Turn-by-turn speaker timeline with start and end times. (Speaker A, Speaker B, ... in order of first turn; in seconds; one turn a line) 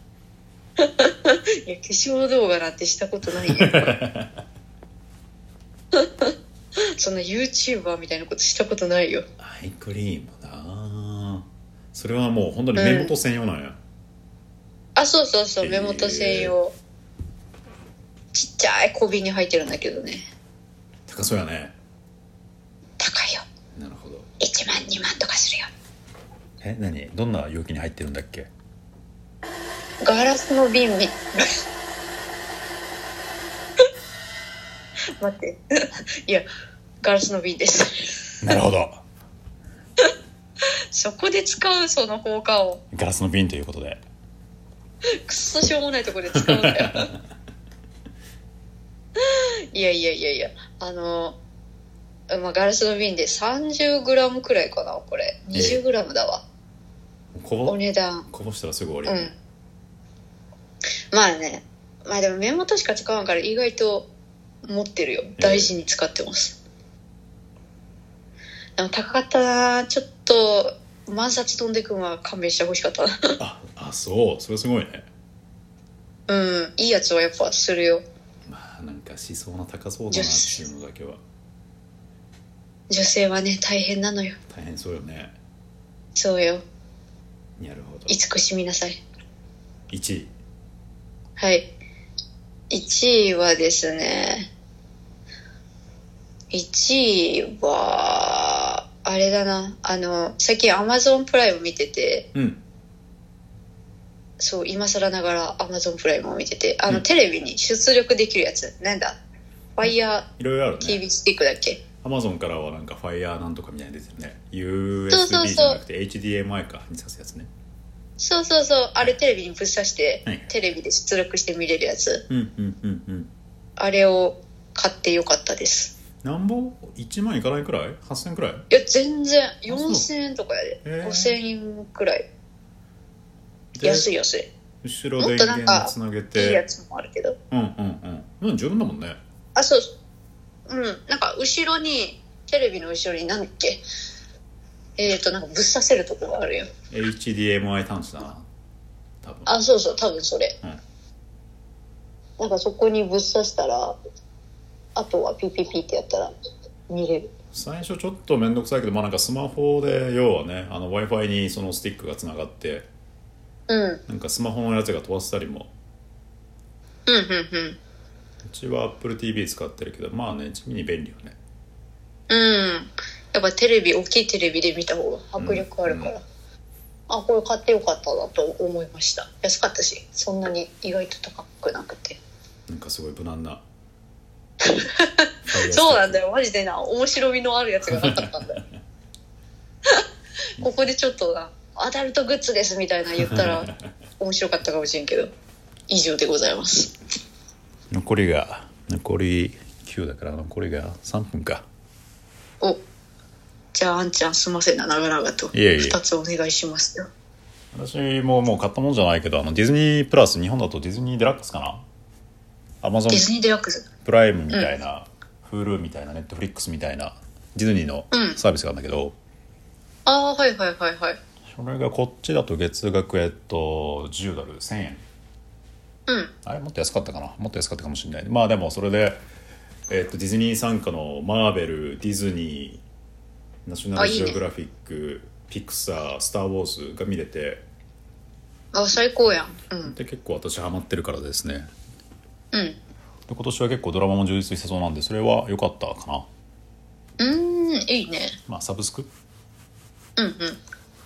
Speaker A: 0.8-4.0
Speaker B: 3.4-4.4
Speaker A: 5.9-6.3
Speaker A: 7.0-9.3
Speaker B: 9.4-13.8
Speaker A: 12.8-13.1
Speaker A: 15.0-16.8
Speaker B: 15.6-16.6
Speaker A: 18.3-20.3
Speaker B: 21.1-21.7
Speaker A: 23.0-23.5
Speaker B: 23.8-24.3
Speaker A: 24.4-25.7
Speaker B: 26.6-28.5
Speaker A: 30.0-31.6
Speaker A: 35.2-36.5
Speaker A: 37.0-38.6
Speaker B: 38.4-39.0
Speaker A: 40.9-42.8
Speaker B: 42.9-44.0
Speaker A: 45.2-47.1
Speaker B: 46.5-46.8
Speaker A: 49.2-51.4
Speaker A: 52.3-56.4
Speaker B: 55.5-55.8
Speaker B: 57.4-57.8
Speaker A: 57.7-58.3
Speaker B: 58.3-59.3
Speaker A: 59.0-59.3
Speaker A: 61.1-64.1
Speaker A: 64.6-66.6
Speaker B: 65.4-65.7
Speaker A: 68.8-73.4
Speaker B: 73.4-75.1
Speaker A: 76.3-78.0
Speaker B: 78.5-81.2
Speaker A: 80.1-80.6
Speaker A: 82.9-84.4
Speaker B: 84.5-85.3
Speaker A: 86.2-86.6
Speaker B: 87.6-88.2
Speaker A: 88.1-89.0
Speaker B: 89.9-90.3
Speaker A: 91.4-91.7
Speaker A: 92.7-94.5
Speaker A: 96.5-102.3
Speaker B: 102.3-102.6
Speaker A: 104.4-109.2
Speaker A: 109.8-110.3
Speaker B: 110.4-111.0
Speaker A: 110.8-111.8
Speaker B: 112.0-117.5
Speaker A: 115.1-115.8
Speaker A: 118.2-122.2
Speaker B: 122.3-123.3
Speaker A: 123.8-125.9
Speaker B: 126.2-128.7
Speaker A: 128.7-132.3
Speaker B: 129.7-130.1
Speaker B: 130.8-131.4
Speaker B: 133.8-134.1
Speaker A: 133.8-134.5
Speaker B: 134.8-136.6
Speaker A: 135.2-137.4
Speaker B: 137.5-139.2
Speaker A: 139.6-139.9
Speaker A: 140.7-143.8
Speaker A: 145.0-146.7
Speaker B: 146.9-148.5
Speaker B: 149.2-149.6
Speaker A: 149.5-150.6
Speaker A: 152.4-154.0
Speaker A: 154.9-156.3
Speaker A: 156.9-157.3
Speaker B: 157.5-162.9
Speaker A: 163.7-164.0
Speaker B: 164.1-165.7
Speaker A: 167.1-167.8
Speaker B: 168.4-171.4
Speaker A: 172.3-176.2
Speaker B: 175.4-176.1
Speaker A: 177.1-182.2
Speaker B: 182.7-183.6
Speaker A: 184.7-188.6
Speaker B: 185.5-186.2
Speaker B: 188.1-188.3
Speaker A: 190.6-195.3
Speaker A: 195.9-196.9
Speaker B: 197.9-201.7
Speaker A: 203.7-207.1
Speaker B: 205.5-206.0
Speaker B: 207.7-211.8
Speaker B: 212.8-213.3
Speaker A: 213.1-213.9
Speaker B: 214.0-219.2
Speaker A: 218.1-218.4
Speaker A: 220.1-221.2
Speaker B: 221.5-225.0
Speaker A: 226.1-226.3
Speaker B: 226.4-229.2
Speaker B: 229.9-232.8
Speaker B: 233.7-237.7
Speaker A: 234.0-234.4
Speaker A: 238.7-239.9
Speaker B: 239.8-241.7
Speaker A: 242.5-242.8
Speaker B: 243.3-246.3
Speaker A: 247.2-248.4
Speaker B: 248.5-249.1
Speaker A: 250.2-250.6